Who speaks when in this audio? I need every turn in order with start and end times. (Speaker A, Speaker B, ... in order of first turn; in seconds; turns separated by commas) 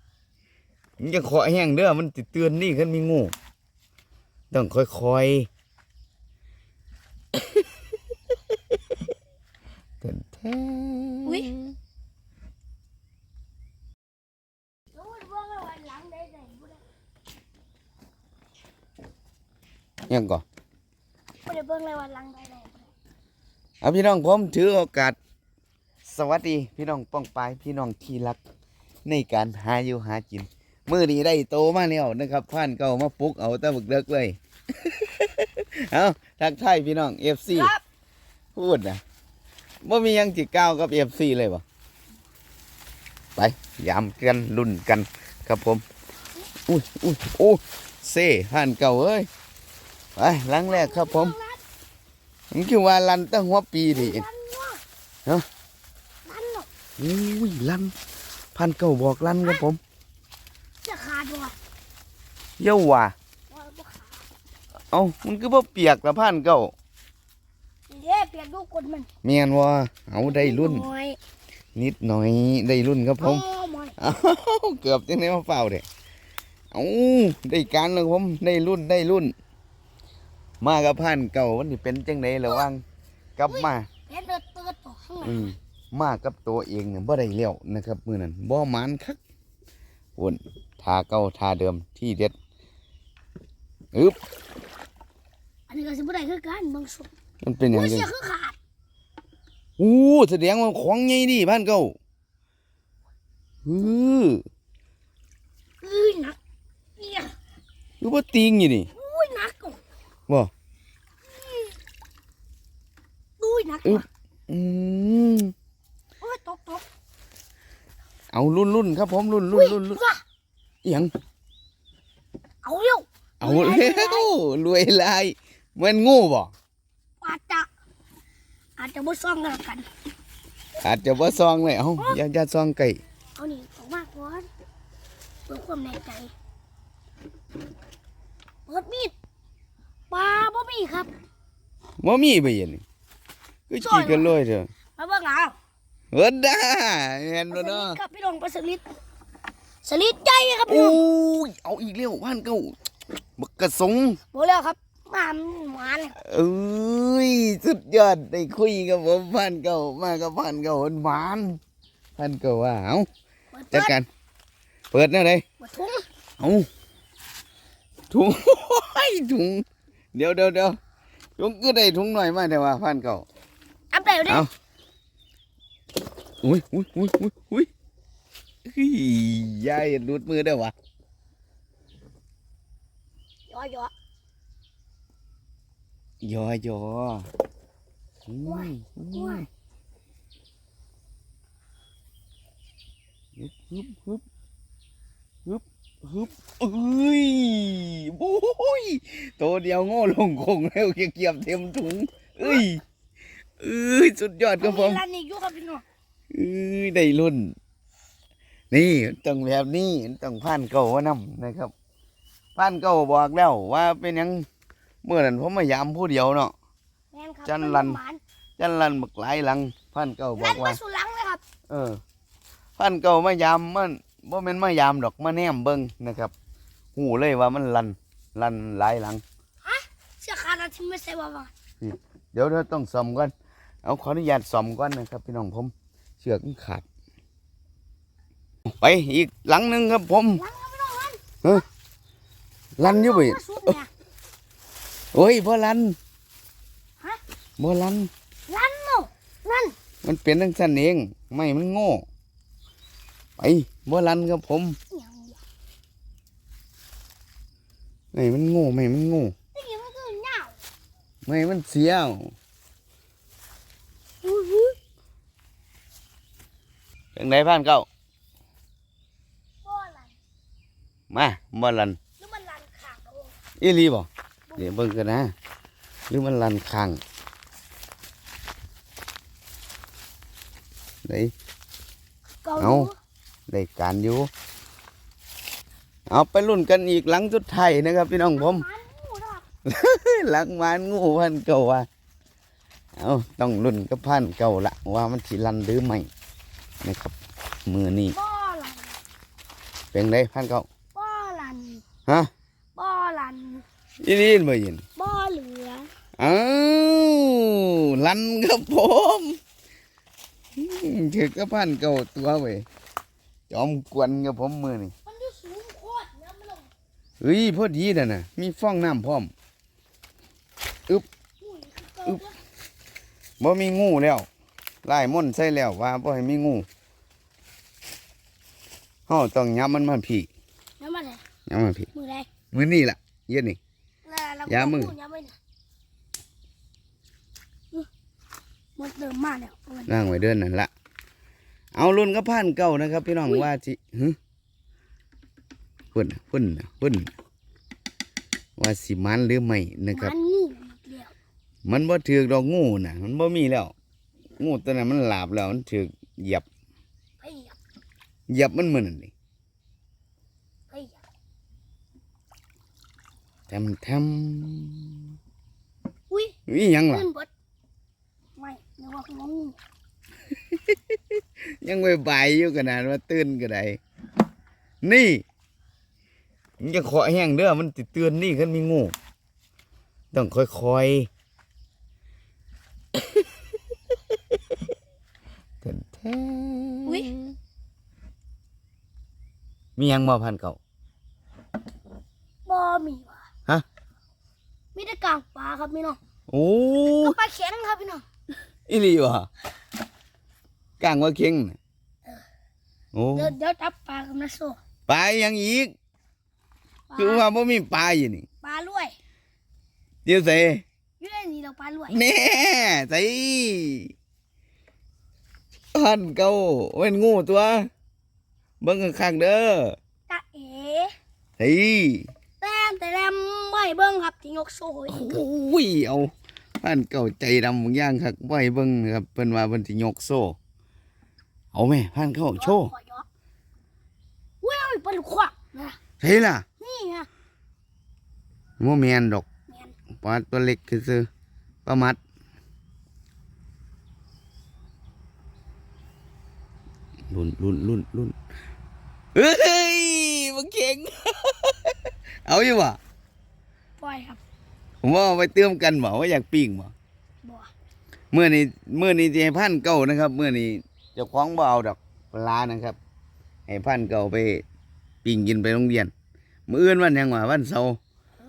Speaker A: 1.0-3.3, Speaker A: 4.5-5.5, Speaker A: 10.0-11.7, Speaker B: 11.3-11.5, Speaker B: 14.9-16.8, Speaker A: 20.1-20.4, Speaker B: 21.4-22.9, Speaker A: 23.8-25.2, Speaker A: 26.0-28.4, Speaker A: 29.1-37.7, Speaker B: 37.5-37.8, Speaker A: 38.5-39.0, Speaker A: 39.8-41.6, Speaker A: 43.4-45.8, Speaker A: 46.7-49.3, Speaker A: 50.2-51.4, Speaker B: 50.7-51.6, Speaker A: 52.5-54.2, Speaker B: 53.9-54.8, Speaker B: 56.2-56.7, Speaker A: 57.0-57.9, Speaker A: 58.5-59.8, Speaker B: 60.8-61.6, Speaker A: 62.6-63.1, Speaker B: 63.5-64.3, Speaker A: 64.9-66.7, Speaker B: 67.9-69.1, Speaker A: 69.2-70.9, Speaker B: 70.2-71.2, Speaker A: 71.8-73.4, Speaker B: 73.2-74.0, Speaker A: 74.0-75.8, Speaker A: 76.7-79.3, Speaker A: 80.6-82.8, Speaker A: 83.4-83.9, Speaker B: 83.5-85.6, Speaker A: 85.2-89.2, Speaker A: 90.2-92.4, Speaker B: 95.7-97.1, Speaker A: 97.4-98.1, Speaker B: 97.7-98.6, Speaker A: 99.8-102.0, Speaker A: 103.7-104.4, Speaker B: 105.8-106.4, Speaker B: 107.0-107.3, Speaker A: 108.0-108.9, Speaker B: 109.0-109.8, Speaker B: 111.2-111.8, Speaker B: 113.4-114.1, Speaker A: 113.8-115.5, Speaker B: 116.2-116.8, Speaker A: 118.3-120.0, Speaker B: 119.5-120.2, Speaker A: 120.8-121.1, Speaker B: 122.6-124.3, Speaker A: 123.4-126.5, Speaker B: 127.2-127.7, Speaker B: 128.8-129.9, Speaker A: 130.8-133.0, Speaker B: 133.4-134.5, Speaker B: 135.5-136.3, Speaker B: 138.7-139.1, Speaker B: 140.1-141.1, Speaker A: 142.0-142.8, Speaker A: 143.7-144.7, Speaker B: 143.8-144.3, Speaker B: 145.0-145.6, Speaker A: 146.1-148.0, Speaker B: 147.5-148.8, Speaker B: 149.8-151.0, Speaker A: 150.7-152.8, Speaker A: 153.4-154.2, Speaker B: 154.3-156.2, Speaker A: 156.2-161.6, Speaker A: 162.2-163.1, Speaker B: 163.5-164.0, Speaker A: 163.7-164.1, Speaker A: 164.9-165.4, Speaker B: 165.6-166.1, Speaker A: 166.4-166.7, Speaker A: 168.1-170.8, Speaker A: 171.4-173.3, Speaker B: 173.9-174.5, Speaker A: 176.4-177.7, Speaker A: 178.7-180.7, Speaker B: 183.5-183.9, Speaker A: 186.2-187.3, Speaker A: 188.3-189.5, Speaker B: 188.4-189.4, Speaker A: 193.4-194.2, Speaker A: 195.5-202.8, Speaker A: 203.6-205.0, Speaker B: 204.6-205.8, Speaker A: 206.3-207.5, Speaker A: 208.7-211.7, Speaker A: 212.6-214.5, Speaker A: 215.0-216.5, Speaker B: 217.1-218.2, Speaker A: 217.5-218.0, Speaker A: 218.6-220.8, Speaker B: 220.4-221.4, Speaker A: 221.7-222.0, Speaker A: 222.8-226.3, Speaker A: 226.9-229.2, Speaker B: 229.6-231.5, Speaker A: 231.8-233.3, Speaker A: 233.8-236.8, Speaker A: 238.8-240.4, Speaker B: 240.4-241.6, Speaker A: 242.8-243.7, Speaker B: 242.8-243.9, Speaker A: 245.1-246.0, Speaker A: 247.6-248.1, Speaker B: 248.5-249.8, Speaker A: 250.0-252.1, Speaker A: 253.4-254.8, Speaker B: 254.9-255.4, Speaker A: 258.1-259.3, Speaker B: 259.5-260.6, Speaker A: 261.2-262.3, Speaker B: 264.2-264.8, Speaker A: 267.1-267.9, Speaker B: 269.6-270.1, Speaker A: 271.1-272.0, Speaker B: 272.2-273.4, Speaker A: 273.6-275.3, Speaker B: 274.5-275.0, Speaker A: 276.1-277.0, Speaker A: 281.1-281.3, Speaker B: 282.4-283.0, Speaker A: 282.6-282.9, Speaker A: 283.5-284.3, Speaker A: 286.1-288.6, Speaker B: 288.4-289.4, Speaker A: 289.6-291.9, Speaker A: 293.0-296.1, Speaker A: 296.8-298.2, Speaker B: 298.1-299.0, Speaker A: 299.9-300.7, Speaker B: 300.9-301.8, Speaker B: 302.8-303.6, Speaker A: 304.0-304.8, Speaker B: 305.0-305.9, Speaker A: 306.2-309.4, Speaker A: 310.6-312.7, Speaker A: 313.5-314.9, Speaker B: 315.1-316.7, Speaker A: 317.2-319.3, Speaker B: 321.4-322.4, Speaker A: 323.4-324.3, Speaker A: 324.8-326.7, Speaker A: 329.1-330.3, Speaker B: 330.8-331.2, Speaker A: 331.5-331.9, Speaker B: 331.9-332.3, Speaker A: 332.5-333.6, Speaker B: 334.1-335.4, Speaker A: 334.5-334.9, Speaker B: 338.8-340.0, Speaker A: 339.9-340.7, Speaker A: 341.7-344.2, Speaker A: 345.9-347.1, Speaker A: 348.6-350.1, Speaker B: 349.9-351.1, Speaker A: 351.6-353.7, Speaker A: 354.4-356.5, Speaker B: 357.2-357.6, Speaker A: 358.3-359.1, Speaker B: 360.7-361.0, Speaker A: 363.5-365.0, Speaker B: 366.1-366.4, Speaker A: 366.5-367.1, Speaker B: 366.9-367.3, Speaker B: 368.4-369.6, Speaker A: 370.5-371.0, Speaker A: 371.6-373.8, Speaker A: 374.8-375.2, Speaker A: 376.6-378.9, Speaker A: 380.1-381.1, Speaker A: 385.6-387.3, Speaker B: 386.9-387.1, Speaker A: 389.8-390.6, Speaker B: 392.5-393.3, Speaker B: 394.8-396.0, Speaker A: 396.3-397.2, Speaker B: 397.0-398.0, Speaker A: 398.7-399.3, Speaker A: 400.8-401.6, Speaker A: 402.9-403.3, Speaker B: 403.1-404.6, Speaker A: 404.9-405.7, Speaker B: 406.9-407.2, Speaker A: 407.0-408.3, Speaker B: 408.4-409.0, Speaker A: 410.1-410.6, Speaker B: 411.0-412.0, Speaker A: 411.9-413.9, Speaker A: 415.7-417.7, Speaker A: 418.6-419.8, Speaker B: 420.1-420.9, Speaker A: 421.4-422.1, Speaker B: 422.4-425.2, Speaker A: 424.9-430.4, Speaker A: 431.5-432.7, Speaker B: 432.4-433.1, Speaker B: 434.4-435.8, Speaker A: 436.0-436.4, Speaker B: 436.6-437.1, Speaker A: 438.6-439.3, Speaker B: 439.5-439.8, Speaker A: 440.0-441.1, Speaker A: 441.6-442.0, Speaker A: 447.1-448.1, Speaker A: 449.1-452.8, Speaker B: 453.8-454.2, Speaker A: 454.8-456.7, Speaker B: 457.2-457.5, Speaker A: 458.1-462.8, Speaker A: 463.5-464.4, Speaker A: 465.0-465.9, Speaker A: 466.5-467.8